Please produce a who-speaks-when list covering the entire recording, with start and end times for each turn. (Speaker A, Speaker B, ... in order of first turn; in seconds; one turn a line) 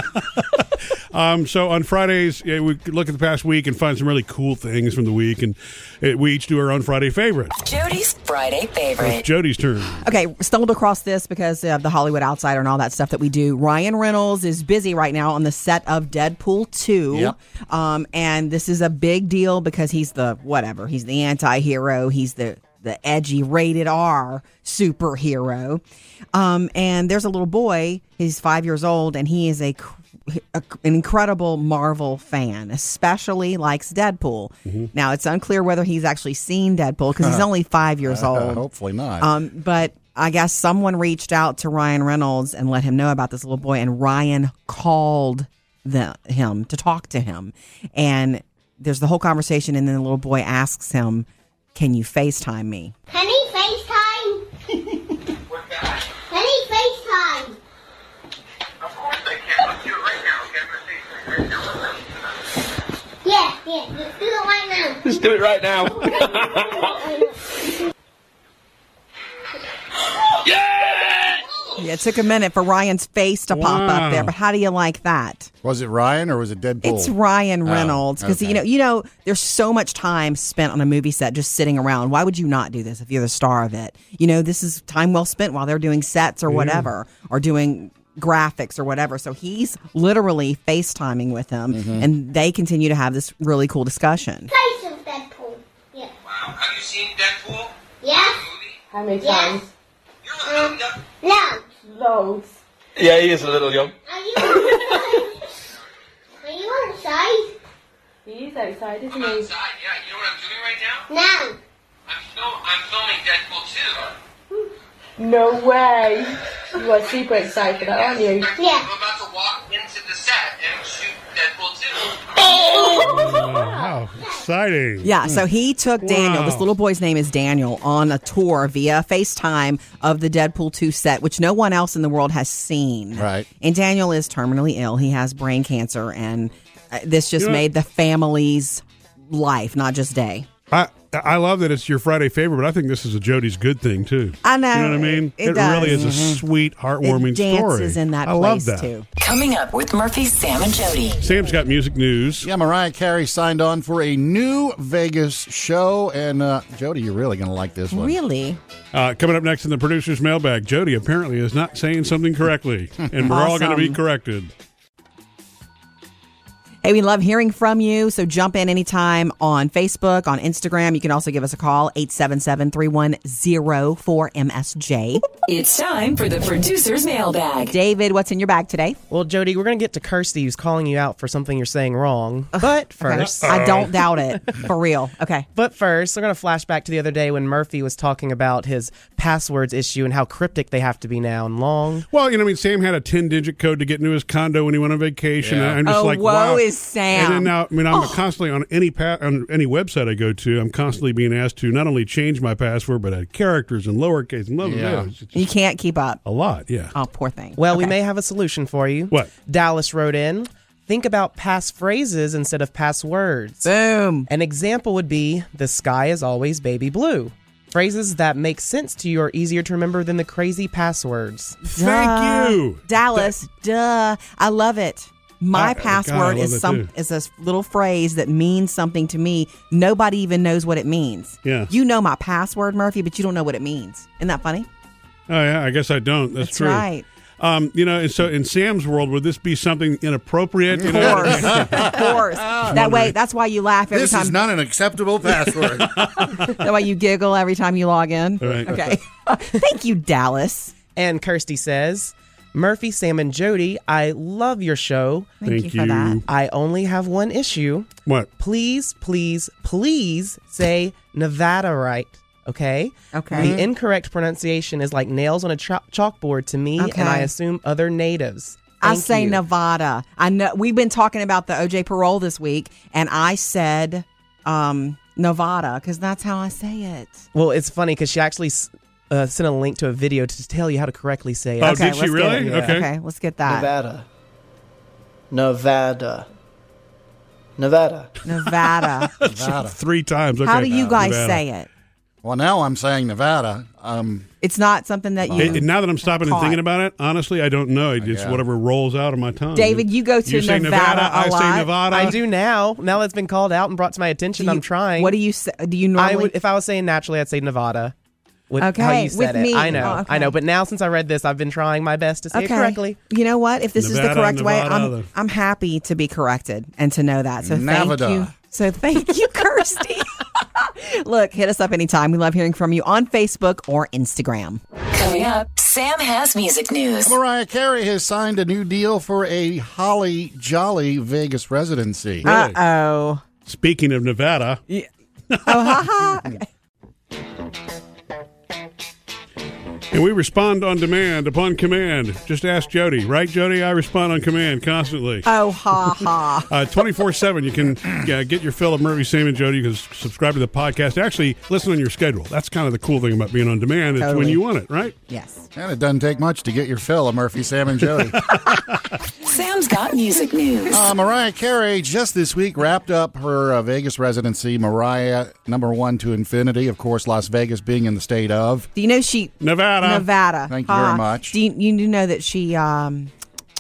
Speaker A: 1.1-7.5
Speaker B: 7.6-9.3
Speaker A: 9.0-10.0
Speaker C: 10.0-25.8
Speaker C: 26.3-38.6
Speaker D: 37.2-37.5
Speaker D: 38.0-39.3
Speaker C: 39.2-52.9
Speaker E: 53.1-54.5
Speaker E: 56.3-57.6
Speaker E: 63.2-65.2
Speaker F: 65.1-66.1
Speaker F: 70.5-71.1
Speaker C: 71.8-75.5
Speaker A: 73.5-74.3
Speaker D: 75.6-77.1
Speaker C: 76.8-94.5
Speaker D: 77.7-78.6
Speaker A: 86.5-86.9
Speaker D: 91.7-92.1
Speaker E: 94.5-96.1
Speaker E: 98.0-98.5
Speaker G: 98.9-99.7
Speaker E: 99.2-99.6
Speaker E: 100.4-101.7
Speaker G: 101.8-102.6
Speaker F: 103.0-103.9
Speaker E: 104.0-105.4
Speaker E: 106.4-107.6
Speaker G: 108.2-109.6
Speaker E: 111.1-111.6
Speaker G: 115.2-118.6
Speaker E: 118.6-119.0
Speaker E: 122.2-124.4
Speaker A: 123.0-125.1
Speaker C: 125.0-140.5
Speaker A: 126.0-126.7
Speaker D: 133.2-133.5
Speaker A: 140.7-148.9
Speaker C: 144.4-146.1
Speaker D: 145.9-146.4
Speaker C: 147.0-149.1
Speaker B: 149.2-151.2
Speaker A: 151.2-152.5
Speaker D: 152.4-158.2
Speaker C: 157.9-158.6
Speaker A: 158.9-164.5
Speaker C: 163.3-164.0
Speaker C: 166.8-175.2
Speaker B: 175.4-177.8
Speaker C: 177.7-179.0
Speaker H: 179.1-183.9
Speaker C: 182.5-185.5
Speaker A: 183.2-184.0
Speaker H: 185.6-192.1
Speaker A: 192.1-205.5
Speaker D: 195.4-195.8
Speaker C: 195.8-198.2
Speaker D: 204.6-205.1
Speaker C: 205.3-206.2
Speaker A: 206.2-206.9
Speaker C: 206.9-207.9
Speaker H: 207.6-213.7
Speaker C: 213.6-214.3
Speaker H: 214.3-221.6
Speaker C: 221.6-234.7
Speaker A: 221.7-223.3
Speaker A: 225.5-226.9
Speaker A: 231.4-231.7
Speaker A: 235.3-236.9
Speaker C: 236.4-237.1
Speaker A: 237.4-242.1
Speaker D: 240.7-242.8
Speaker C: 240.8-244.4
Speaker A: 242.6-243.2
Speaker D: 243.9-246.1
Speaker A: 246.0-246.6
Speaker C: 246.4-250.8
Speaker A: 248.4-248.8
Speaker H: 251.0-255.4
Speaker C: 255.4-256.2
Speaker A: 255.4-256.2
Speaker H: 256.3-269.4
Speaker C: 263.1-263.6
Speaker C: 266.8-267.3
Speaker C: 268.8-277.2
Speaker H: 277.3-282.0
Speaker A: 281.6-282.9
Speaker C: 281.6-283.7
Speaker I: 282.4-282.7
Speaker I: 283.5-284.1
Speaker I: 285.3-286.3
Speaker I: 287.6-288.1
Speaker C: 288.2-289.1
Speaker A: 288.4-291.4
Speaker D: 289.2-289.8
Speaker C: 290.4-291.7
Speaker D: 292.2-294.3
Speaker C: 294.4-296.6
Speaker D: 295.2-295.6
Speaker A: 295.4-302.2
Speaker D: 298.0-298.4
Speaker C: 299.6-302.1
Speaker H: 301.9-305.1
Speaker C: 304.4-306.3
Speaker H: 306.0-307.9
Speaker H: 308.5-313.0
Speaker C: 308.6-310.4
Speaker C: 312.3-324.6
Speaker A: 313.8-315.1
Speaker D: 317.4-318.3
Speaker B: 324.9-327.2
Speaker D: 327.0-332.3
Speaker A: 332.2-332.6
Speaker C: 332.2-333.2
Speaker A: 333.5-334.6
Speaker A: 335.3-336.1
Speaker C: 335.4-336.5
Speaker A: 339.9-345.3
Speaker C: 345.2-346.5
Speaker A: 346.5-354.9
Speaker C: 354.0-354.4
Speaker C: 355.1-355.5
Speaker D: 355.6-358.2
Speaker B: 359.2-360.8
Speaker D: 360.7-368.7
Speaker C: 368.8-373.1
Speaker A: 369.4-370.1
Speaker D: 370.5-371.4